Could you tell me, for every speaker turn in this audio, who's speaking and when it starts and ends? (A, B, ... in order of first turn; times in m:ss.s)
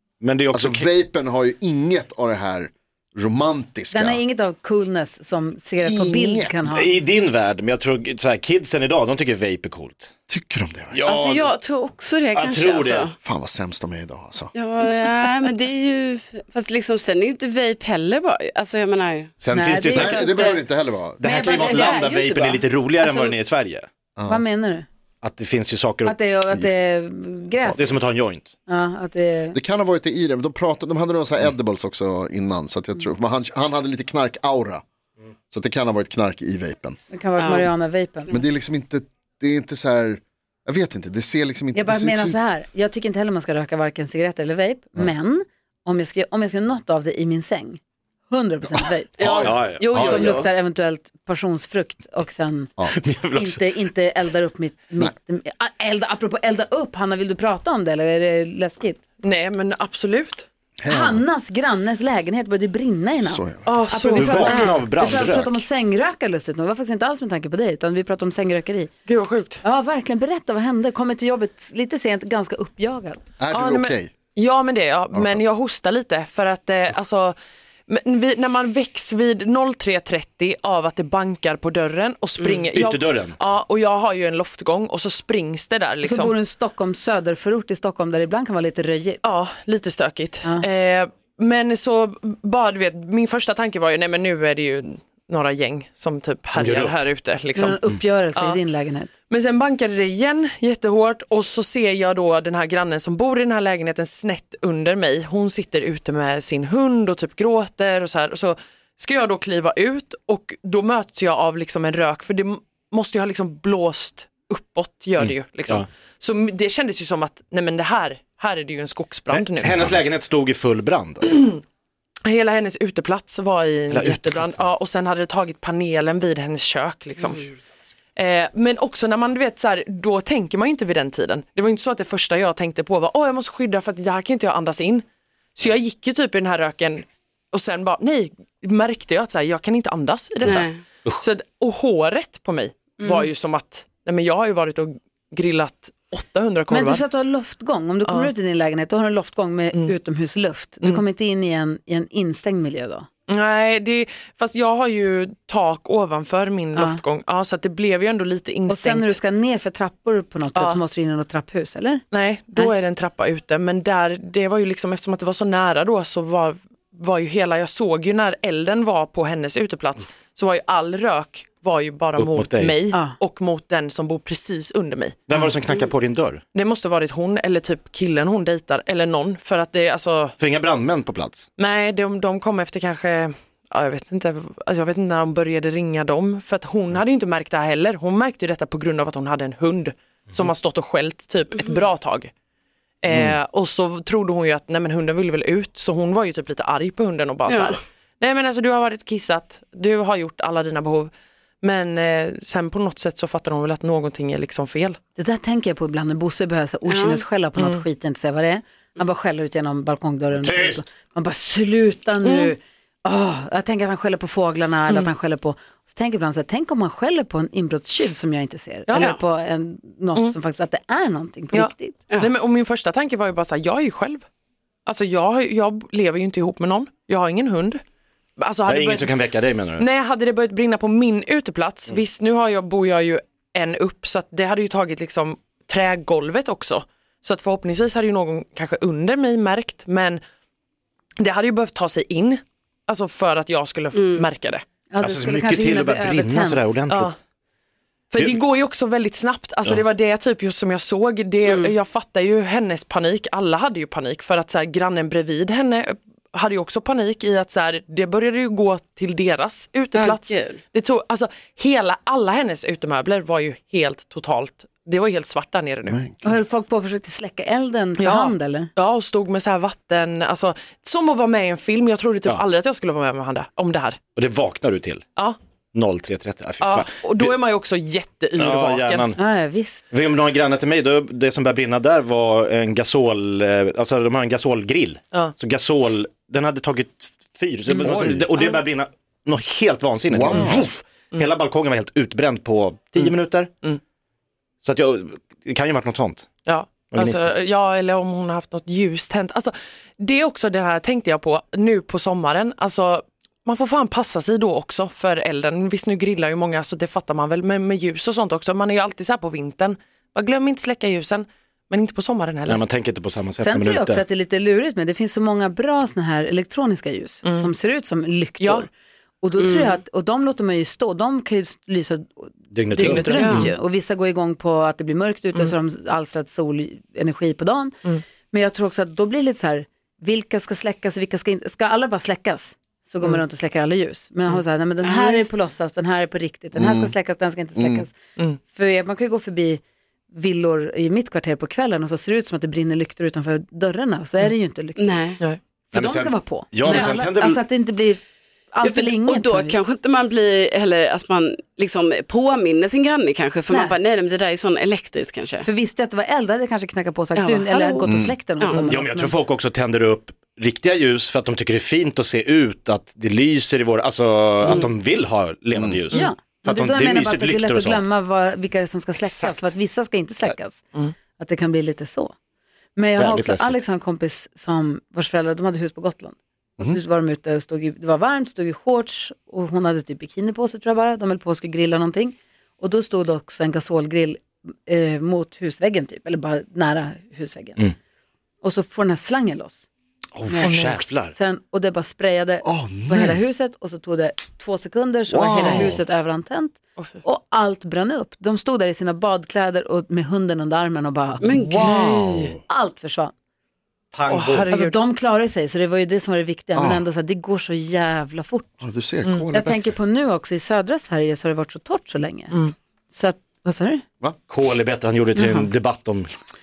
0:00.2-0:00.9 A
0:00.5-0:04.2 B
0:03.9-0:06.9 C
0:05.8-0:06.6 B
0:06.7-0:10.1 A
0:10.3-0:11.1 B
0:10.9-0:11.5 A
0:11.0-0:13.1 D
0:12.3-0:13.1 A
0:13.2-0:14.5 B
0:14.6-0:19.4 D
0:19.4-0:20.3 A
0:19.5-0:20.6 C
0:19.9-0:20.6 D
0:20.0-0:21.4 B
0:21.2-0:23.9 A
0:21.2-0:22.6 C
0:21.3-0:23.3 D
0:24.2-0:24.4 B
0:24.3-0:24.9 C
0:25.2-0:26.2 A
0:26.0-0:28.0 C
0:26.5-0:26.9 B
0:27.6-0:28.5 A
0:28.7-0:29.6 C
0:29.5-0:34.8 B
0:35.5-0:37.0 B
0:37.1-0:38.3 C
0:37.4-0:37.7 D
0:38.3-0:42.4 B
0:41.7-0:52.7 C
0:49.2-0:50.5 D
0:49.2-0:50.3 A
0:52.9-0:53.6 A
0:53.3-0:59.0 C
0:59.2-1:00.5 E
1:00.8-1:01.2 B
1:00.9-1:08.9 C
1:03.2-1:03.8 B
1:03.6-1:04.6 E
1:04.2-1:05.6 A
1:04.5-1:04.8 D
1:09.1-1:09.6 E
1:09.6-1:13.2 C
1:13.4-1:14.1 B
1:13.5-1:17.4 E
1:15.1-1:15.4 B
1:17.9-1:26.4 E
1:22.7-1:23.4 A
1:26.0-1:29.2 C
1:29.2-1:37.8 E
1:36.6-1:37.0 A
1:37.6-1:39.1 C
1:38.4-1:38.6 E
1:39.3-2:00.1 E
1:55.2-1:55.8 A
1:59.3-2:01.4 A
2:01.2-2:01.6 E
2:02.2-2:07.5 E
2:03.9-2:04.6 A
2:08.2-2:15.0 E
2:15.6-2:27.0 E
2:20.4-2:20.8 D
2:23.0-2:23.3 D
2:26.7-2:33.1 C
2:28.1-2:28.3 E
2:33.3-2:39.2 E
2:36.8-2:37.0 C
2:38.7-2:42.7 C
2:40.6-2:40.8 E
2:42.1-2:55.4 E
2:52.2-2:52.8 A
2:52.9-2:53.2 C
2:55.3-2:56.4 A
2:56.5-3:00.4 E
3:00.4-3:01.5 A
3:01.6-3:12.3 E
3:13.0-3:25.0 E
3:17.5-3:17.8 D
3:25.2-3:42.0 C
3:26.9-3:27.2 D
3:27.6-3:27.8 E
3:30.3-3:30.8 A
3:32.2-3:32.5 E
3:38.9-3:39.2 E
3:41.5-3:44.2 E
3:44.9-3:47.8 E
3:48.4-3:49.2 E
3:48.7-3:49.8 A
3:49.8-4:00.2 E
4:01.2-4:04.6 E
4:04.0-4:04.3 D
4:04.9-4:06.8 C
4:05.0-4:07.1 A
4:06.9-4:07.2 E
4:08.1-4:26.0 E
4:11.5-4:11.7 D
4:19.9-4:20.6 D
4:25.9-4:26.4 B
4:26.2-4:28.7 C
4:28.0-4:34.0 E
4:34.2-4:35.0 A
4:35.7-4:37.3 A
4:36.6-4:39.1 E
4:38.4-4:39.2 A
4:39.2-4:39.8 C
4:39.9-4:53.5 A
4:47.8-4:48.3 B
4:50.1-4:50.7 B
4:54.6-4:56.3 A
4:56.4-5:12.6 E
4:56.9-4:57.3 A
5:12.5-5:14.0 A
5:13.4-5:18.7 C
5:17.2-5:17.5 E
5:18.4-5:18.7 E
5:19.2-5:27.8 C
5:19.4-5:19.7 D
5:22.5-5:23.4 A
5:22.8-5:23.5 E
5:23.1-5:23.5 D
5:28.3-5:37.9 C
5:34.8-5:35.3 D
5:36.6-5:36.9 B
5:37.6-5:37.8 B
5:38.4-5:45.0 C
5:44.8-5:45.2 D
5:45.7-5:48.0 C
5:45.7-5:47.4 A
5:48.5-5:49.6 C
5:48.6-5:55.5 D
5:53.5-5:53.8 C
5:55.4-5:59.2 C
5:57.2-5:58.7 D
5:57.9-5:58.2 B
5:58.6-6:07.9 A
6:04.4-6:04.7 D
6:05.5-6:05.8 B
6:05.9-6:10.6 C
6:09.1-6:09.5 A
6:11.2-6:12.1 C
6:12.8-6:27.7 C
6:13.0-6:13.6 A
6:28.4-6:29.6 C
6:30.2-6:31.1 A
6:30.3-6:30.6 C
6:30.4-6:30.8 E
6:31.1-6:42.0 C
6:32.4-6:33.2 B
6:35.1-6:35.8 B
6:35.4-6:35.8 E
6:36.8-6:37.0 E
6:41.2-6:42.4 D
6:41.3-6:42.4 B
6:42.5-6:43.1 C
6:43.9-6:44.5 A
6:44.1-6:44.8 E
6:44.5-6:48.6 C
6:46.6-6:46.8 B
6:48.6-6:49.8 B
6:49.3-6:52.4 C
6:52.9-6:53.8 C
6:54.3-6:56.1 A
6:55.2-6:55.5 C